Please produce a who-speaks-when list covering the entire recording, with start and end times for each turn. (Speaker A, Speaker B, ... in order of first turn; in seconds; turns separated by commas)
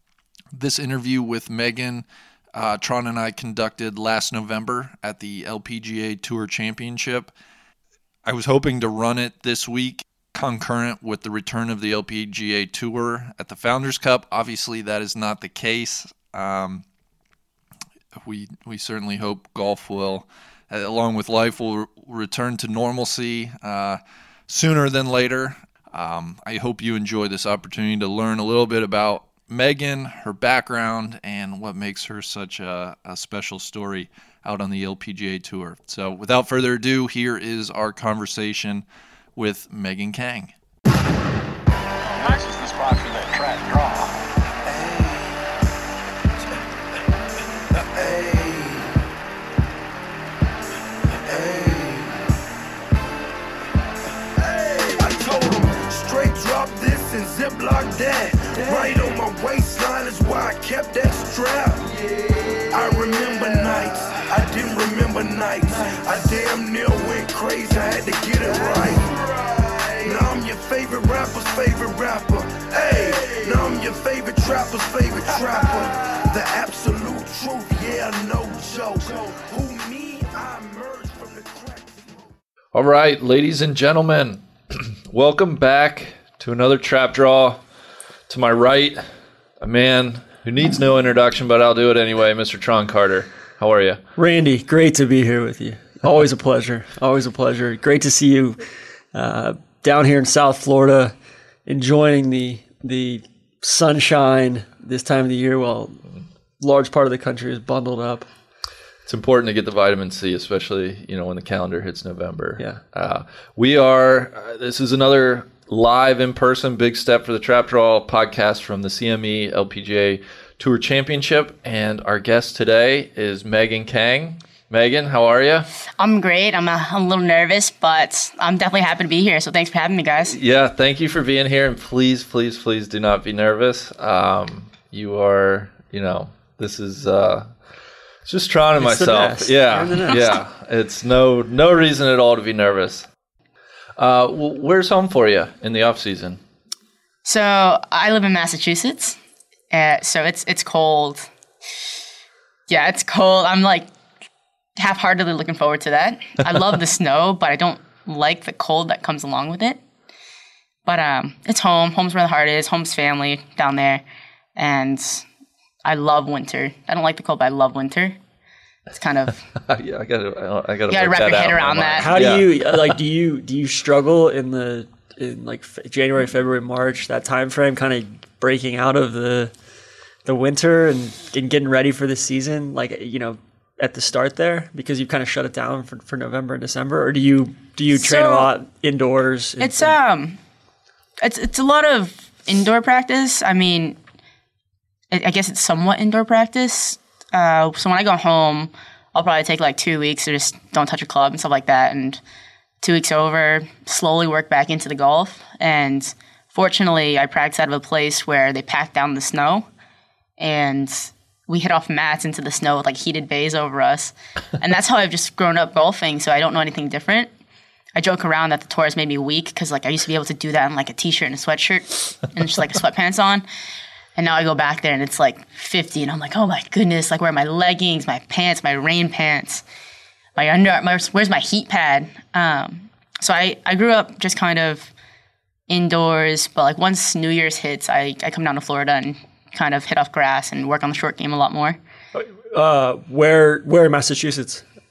Speaker A: 0.5-7.3, Speaker A: 8.2-16.8, Speaker A: 18.2-38.8, Speaker A: 39.4-40.5, Speaker B: 42.1-44.3, Speaker C: 44.7-45.4, Speaker C: 47.8-49.0, Speaker C: 51.2-52.2, Speaker C: 54.4-61.9, Speaker C: 62.7-82.1, Speaker A: 82.7-87.6, Speaker A: 88.3-89.0, Speaker A: 89.6-94.0, Speaker D: 94.2-98.6, Speaker D: 99.1-101.1, Speaker D: 101.7-106.0, Speaker D: 106.6-108.3, Speaker A: 109.1-125.7, Speaker E: 126.0-130.3, Speaker A: 130.3-137.5, Speaker A: 138.2-143.1, Speaker D: 138.8-140.3, Speaker A: 144.0-146.4, Speaker E: 147.2-149.2, Speaker E: 149.7-151.3, Speaker E: 152.7-153.9, Speaker E: 154.8-159.8, Speaker E: 160.8-164.0, Speaker E: 164.6-165.2, Speaker E: 165.8-168.2, Speaker E: 168.9-169.4, Speaker A: 169.6-172.5, Speaker E: 170.9-172.2, Speaker D: 172.0-179.5, Speaker D: 180.2-189.9, Speaker E: 187.9-188.5, Speaker E: 189.6-190.4, Speaker E: 191.2-194.0, Speaker E: 195.1-202.2, Speaker E: 202.8-209.7, Speaker E: 210.4-217.3, Speaker E: 217.9-223.4, Speaker E: 224.2-229.6, Speaker E: 230.3-234.9, Speaker E: 235.7-241.8, Speaker D: 242.1-244.6